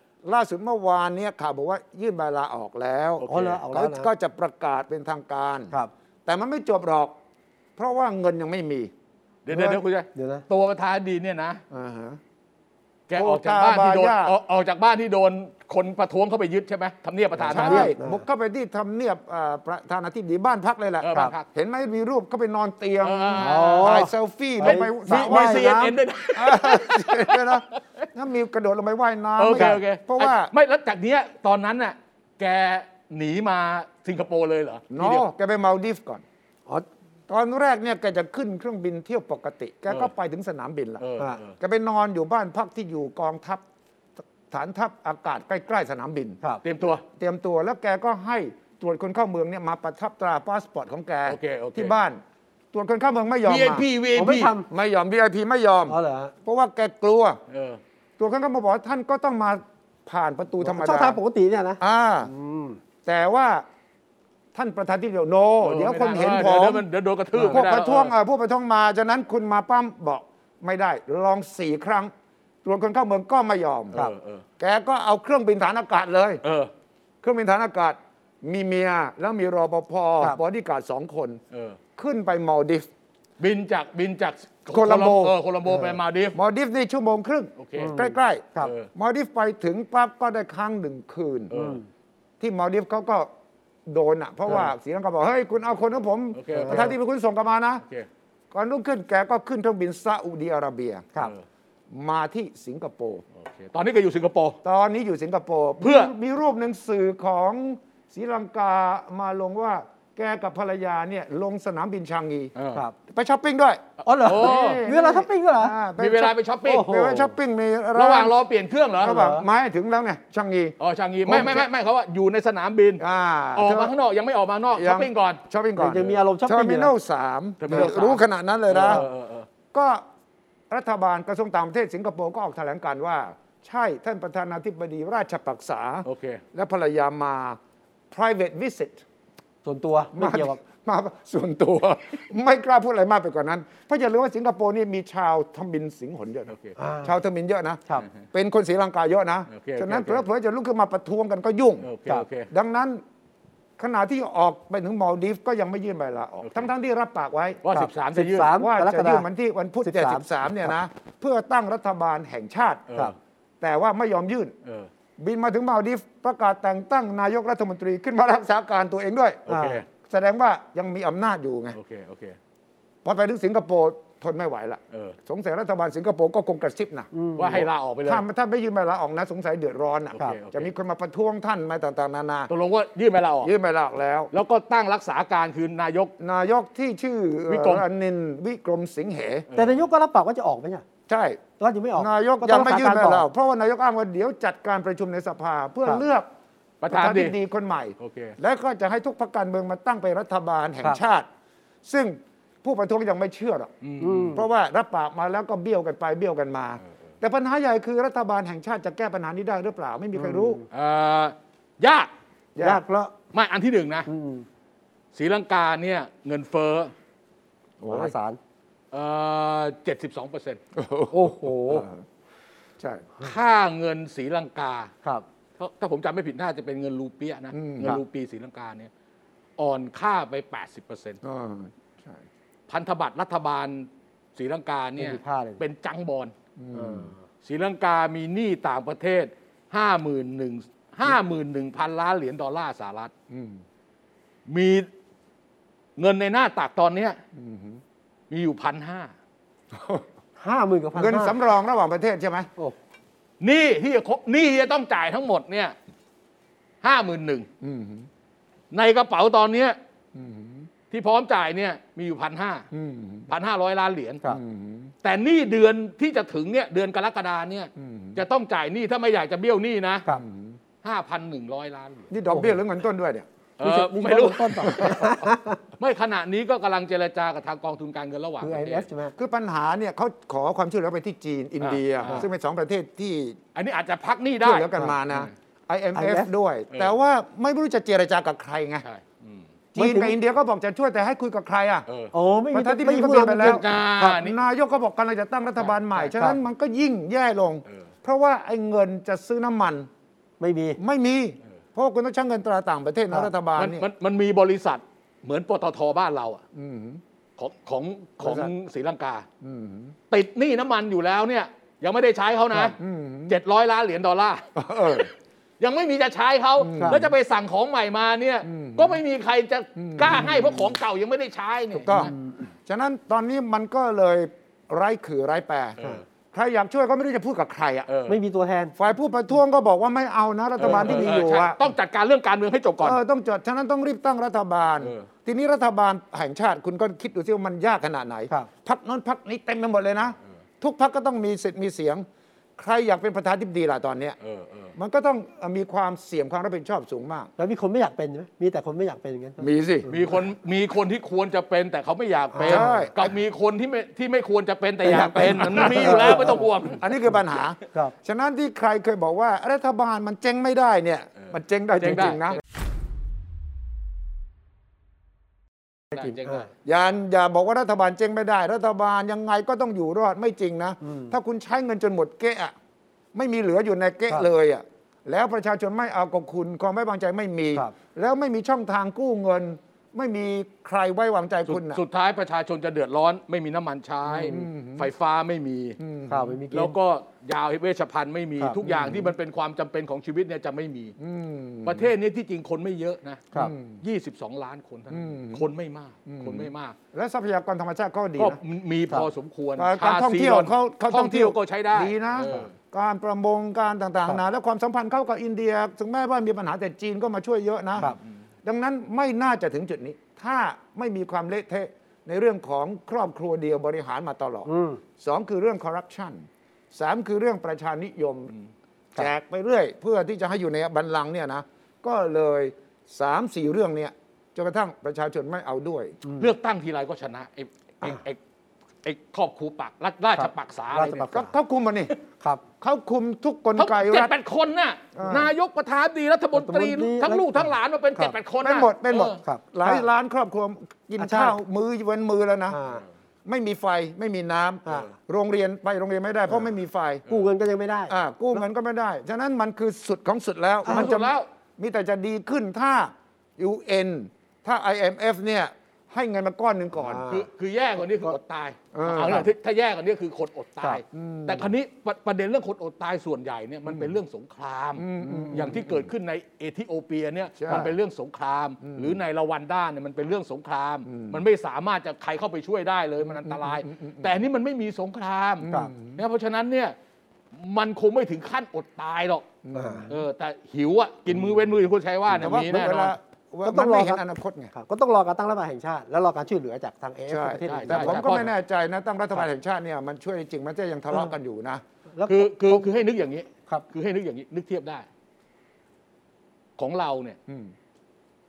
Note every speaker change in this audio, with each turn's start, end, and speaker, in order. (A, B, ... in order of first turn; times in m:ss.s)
0:00.2-0:05.7 A
0:03.2-0:03.6 B
0:03.3-0:04.1 C
0:06.2-0:07.2 A
0:07.8-0:08.9 A
0:09.4-0:11.6 B
0:09.5-0:10.4 C
0:11.7-0:12.2 A
0:13.1-0:17.9 B
0:13.1-0:14.3 A
0:17.4-0:18.2 C
0:17.4-0:30.5 A
0:21.0-0:21.5 B
0:23.0-0:23.9 B
0:23.4-0:26.0 C
0:25.1-0:28.0 B
0:29.4-0:35.2 B
0:29.5-0:29.8 C
0:34.9-0:36.2 A
0:37.3-0:41.0 A
0:41.0-0:41.5 B
0:41.6-0:43.6 A
0:44.5-0:46.4 A
0:46.6-0:47.0 B
0:47.2-0:52.2 A
0:51.3-0:51.9 B
0:52.7-0:53.9 A
0:53.4-0:54.5 B
0:54.1-0:54.7 C
0:54.7-0:57.4 A
0:55.9-0:56.3 C
0:57.5-0:57.8 B
0:58.2-1:01.2 A
1:00.6-1:02.8 C
1:01.8-1:02.3 A
1:03.0-1:03.6 A
1:04.5-1:06.8 A
1:05.6-1:08.1 B
1:07.3-1:07.6 C
1:07.5-1:12.1 A
1:12.6-1:14.0 A
1:13.9-1:14.4 B
1:14.6-1:16.4 A
1:16.4-1:16.7 B
1:17.2-1:21.4 A
1:21.5-1:21.8 B
1:22.0-1:22.9 A
1:23.4-1:26.4 B
1:24.7-1:25.3 A
1:26.3-1:31.5 A
1:27.6-1:27.9 B
1:27.8-1:28.7 C
1:28.6-1:28.9 B
1:31.5-1:31.8 B
1:31.5-1:31.8 C
1:32.4-1:33.3 A
1:33.8-1:37.8 A
1:36.3-1:36.9 B
1:36.5-1:36.9 C
1:38.5-1:41.1 A
1:41.9-1:43.2 A
1:43.4-1:44.6 B
1:44.6-1:52.5 A
1:45.8-1:46.1 B
1:52.5-1:52.8 B
1:53.1-1:58.4 A
1:54.0-1:55.8 C
1:54.2-1:54.8 B
1:56.0-1:56.9 B
1:56.6-1:57.3 C
1:58.0-1:59.2 B
1:59.0-2:00.7 A
1:59.0-1:59.4 C
2:00.8-2:03.0 B
2:01.3-2:01.7 A
2:03.0-2:03.9 A
2:03.6-2:05.4 B
2:04.7-2:09.0 A
2:05.8-2:06.9 C
2:07.6-2:09.5 B
2:07.7-2:08.0 C
2:08.7-2:09.0 C
2:09.7-2:10.0 A
2:10.7-2:17.6 A
2:16.0-2:16.4 B
2:18.1-2:19.0 A
2:19.6-2:20.6 C
2:20.1-2:31.9 A
2:26.5-2:26.8 B
2:26.8-2:27.1 C
2:29.5-2:30.2 B
2:31.8-2:32.5 B
2:32.5-2:33.0 A
2:33.8-2:37.6 A
2:37.6-2:38.5 B
2:37.7-2:39.2 C
2:38.4-2:42.8 A
2:39.8-2:40.7 C
2:42.9-2:43.1 B
2:43.6-2:44.5 A
2:44.6-2:44.9 B
2:45.2-2:49.4 A
2:49.5-2:49.8 B
2:49.5-2:49.8 C
2:50.0-2:51.8 A
2:51.7-2:52.4 B
2:53.0-2:57.1 A
2:57.1-2:57.7 C
2:57.4-2:58.2 B
2:58.0-3:02.5 A
3:00.1-3:00.7 B
3:02.5-3:03.5 B
3:03.4-3:04.3 A
3:04.3-3:06.1 B
3:06.2-3:09.5 A
3:07.5-3:07.8 B
3:09.5-3:09.8 B
3:09.5-3:10.8 C
3:11.1-3:11.4 A
3:11.6-3:13.2 C
3:12.0-3:16.3 A
3:16.8-3:17.3 B
3:16.9-3:21.3 A
3:18.0-3:18.4 B
3:21.8-3:23.7 A
3:23.8-3:24.4 B
3:24.0-3:24.4 C
3:24.3-3:30.6 A
3:30.2-3:30.6 C
3:30.7-3:32.1 B
3:32.5-3:32.8 A
3:32.6-3:33.1 C
3:33.3-3:34.1 B
3:34.1-3:34.4 C
3:35.1-3:36.9 B
3:37.8-3:38.1 A
3:37.9-3:38.4 C
3:38.9-3:40.6 B
3:40.7-3:42.0 A
3:41.1-3:41.9 C
3:42.8-3:43.1 A
3:43.2-3:44.9 B
3:45.6-3:48.9 B
3:47.5-3:48.0 A
3:49.6-3:51.2 B
3:51.2-3:52.2 A
3:52.7-3:56.3 B
3:55.0-3:55.6 C
3:56.6-3:57.1 A
3:56.7-3:57.2 C
3:57.4-4:03.1 B
4:03.3-4:03.6 A
4:04.5-4:04.9 B
4:06.0-4:07.2 B
4:07.3-4:07.8 A
4:08.3-4:09.1 B
4:09.7-4:10.0 A
4:10.4-4:11.4 C
4:10.9-4:12.5 A
4:13.4-4:15.7 B
4:16.8-4:17.5 B
4:17.6-4:18.1 A
4:18.7-4:19.8 B
4:20.1-4:20.7 A
4:20.9-4:22.7 B
4:22.7-4:23.3 A
4:23.3-4:24.2 B
4:24.3-4:24.9 A
4:25.0-4:30.0 B
4:27.8-4:28.2 A
4:30.1-4:30.6 A
4:30.8-4:32.1 B
4:32.1-4:33.3 A
4:32.3-4:32.6 C
4:33.6-4:35.2 B
4:33.6-4:35.6 C
4:35.8-4:38.8 B
4:38.4-4:39.1 C
4:39.2-4:43.4 A
4:41.6-4:42.2 B
4:43.5-4:45.3 B
4:44.4-4:48.8 A
4:45.9-4:46.3 C
4:48.8-4:49.5 B
4:49.7-4:51.8 A
4:49.8-4:50.2 C
4:51.9-4:52.1 B
4:52.1-4:53.6 C
4:52.5-4:59.9 A
4:53.4-4:54.4 B
4:55.6-4:56.1 B
5:00.4-5:00.8 C
5:00.8-5:03.8 A
5:03.6-5:06.4 B
5:06.5-5:07.0 A
5:07.4-5:09.2 B
5:09.4-5:10.0 A
5:10.1-5:12.8 B
5:12.6-5:13.4 A
5:13.3-5:15.0 B
5:14.6-5:15.1 A
5:15.6-5:22.1 B
5:16.6-5:17.1 A
5:16.8-5:17.0 C
5:18.4-5:19.0 A
5:19.8-5:20.7 A
5:21.8-5:22.1 A
5:21.9-5:22.4 C
5:22.6-5:25.8 A
5:26.3-5:27.9 A
5:27.9-5:28.2 B
5:28.1-5:28.7 C
5:28.8-5:31.6 A
5:30.6-5:33.0 B
5:30.6-5:31.1 C
5:32.8-5:42.0 A
5:34.8-5:35.1 B
5:42.6-5:44.2 A
5:44.2-5:44.7 B
5:44.8-5:47.3 A
5:47.4-5:50.0 C
5:49.4-5:49.9 A
5:49.9-5:56.8 B
5:52.3-5:52.8 C
5:52.4-5:53.1 A
5:54.8-5:56.4 C
5:55.4-6:02.4 A
6:01.8-6:02.4 B
6:05.9-6:06.4 C
6:05.9-6:06.5 B
6:06.6-6:12.5 A
6:13.1-6:21.8 A
6:21.5-6:25.8 B
6:24.1-6:24.9 A
6:25.8-6:26.4 A
6:26.1-6:26.8 C
6:26.5-6:30.9 B
6:28.6-6:29.1 A
6:31.0-6:31.9 A
6:31.6-6:36.8 B
6:33.3-6:33.8 A
6:34.9-6:35.5 A
6:36.1-6:38.4 A
6:38.2-6:42.5 B
6:39.6-6:58.3 A
6:54.4-6:54.8 C
6:59.0-7:06.0 A
7:06.0-7:06.3 C
7:06.2-7:08.2 B
7:08.8-7:11.1 B
7:10.2-7:11.3 C
7:11.1-7:11.9 A
7:12.6-7:14.1 A
7:13.6-7:19.2 B
7:15.0-7:15.3 A
7:16.3-7:17.5 C
7:18.4-7:22.6 A
7:19.2-7:19.8 C
7:21.0-7:21.4 C
7:22.5-7:22.8 C
7:23.2-7:27.0 A
7:24.6-7:24.9 C
7:27.1-7:27.9 C
7:27.9-7:37.0 A
7:30.6-7:31.3 B
7:36.8-7:37.3 C
7:37.1-7:56.8 B
7:38.7-7:39.3 A
7:40.9-7:41.5 A
7:44.8-7:45.8 A
7:45.1-7:45.6 C
7:47.4-7:47.7 A
7:48.6-7:49.0 A
7:50.9-7:51.2 A
7:53.2-7:54.1 A
7:55.4-7:56.0 A
7:57.3-7:59.3 B
7:59.4-7:59.9 A
7:59.5-7:59.9 C
7:59.9-8:02.9 B
8:02.1-8:04.5 A
8:03.4-8:08.2 C
8:07.1-8:11.6 A
8:07.4-8:08.3 B
8:12.0-8:12.7 C
8:12.1-8:14.8 B
8:16.6-8:17.2 B
8:17.3-8:17.5 A